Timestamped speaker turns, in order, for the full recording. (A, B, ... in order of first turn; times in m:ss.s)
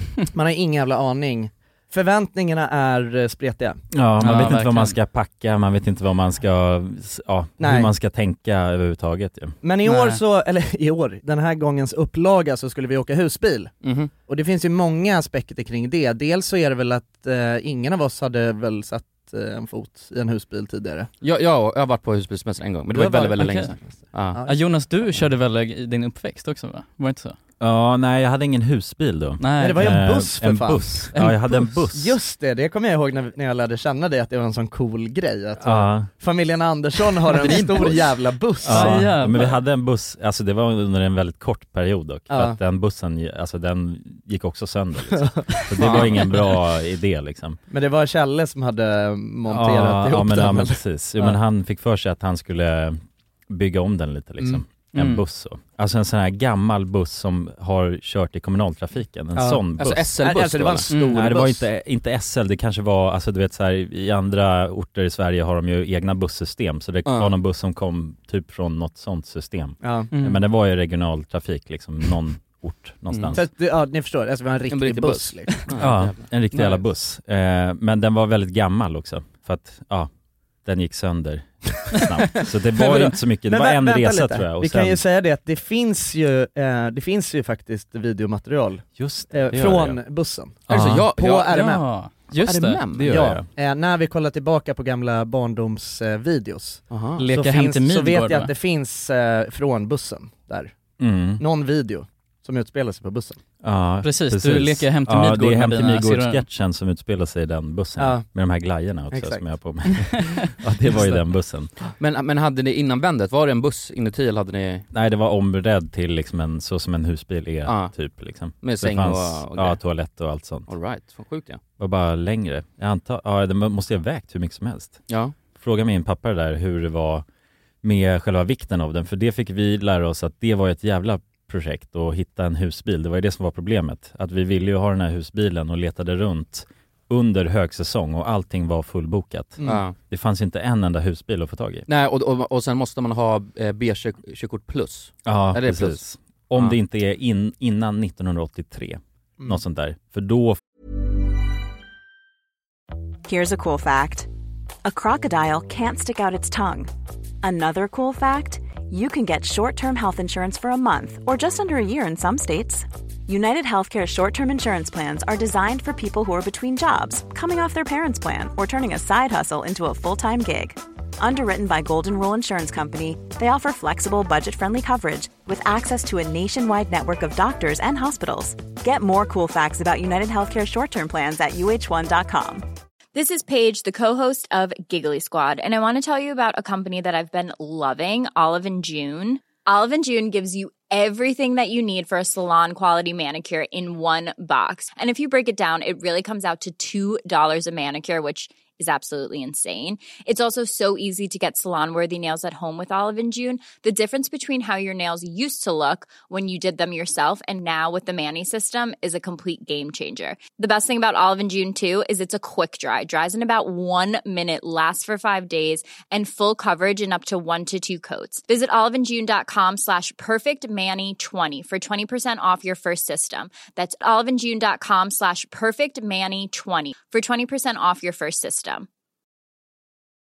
0:00.3-0:03.8 A
0:03.9-0:09.6 B
0:04.2-0:05.0 C
0:07.6-0:07.9 A
0:09.6-0:21.1 A
0:09.8-0:10.2 C
0:13.8-0:14.1 D
0:21.2-0:24.4 D
0:22.9-0:24.6 A
0:23.4-0:23.7 C
0:24.4-0:27.4 C
0:27.6-0:32.2 B
0:29.4-0:30.0 C
0:29.6-0:31.3 A
0:31.1-0:31.6 C
0:31.9-0:39.1 A
0:35.6-0:36.1 B
0:37.3-0:38.1 D
0:38.6-0:47.6 B
0:38.7-0:39.6 C
0:42.3-0:42.6 A
0:45.1-0:46.0 A
0:45.8-0:46.4 D
0:47.7-0:51.4 A
0:49.5-1:00.2 B
0:59.7-1:00.9 D
1:00.2-1:01.6 A
1:00.9-1:13.4 B
1:07.1-1:07.3 D
1:09.8-1:10.1 A
1:10.1-1:10.4 C
1:13.1-1:13.4 D
1:13.3-1:15.6 A
1:14.7-1:16.2 D
1:15.8-1:20.1 B
1:16.5-1:16.8 C
1:20.6-1:25.0 B
1:22.8-1:30.6 A
1:29.0-1:30.0 B
1:30.7-1:31.7 D
1:30.7-1:31.1 B
1:31.1-1:31.8 A
1:31.5-1:32.8 C
1:32.4-1:33.4 D
1:32.9-1:33.4 B
1:33.1-1:40.8 A
1:36.9-1:37.2 D
1:37.2-1:38.5 C
1:41.0-1:41.4 B
1:41.4-1:43.4 A
1:43.6-1:51.7 B
1:44.0-1:46.4 C
1:48.0-1:48.2 A
1:49.1-1:49.4 A
1:52.0-1:54.9 D
1:54.9-2:00.7 B
1:57.6-1:57.9 D
1:58.6-1:59.8 D
2:00.7-2:01.6 D
2:01.8-2:05.0 B
2:05.1-2:05.4 D
2:05.6-2:07.2 B
2:07.8-2:21.9 B
2:19.6-2:20.0 D
2:21.9-2:26.0 D
2:25.2-2:30.6 B
2:33.2-2:34.3 E
2:34.8-2:36.9 E
2:37.4-3:02.6 E
3:03.1-3:48.9 F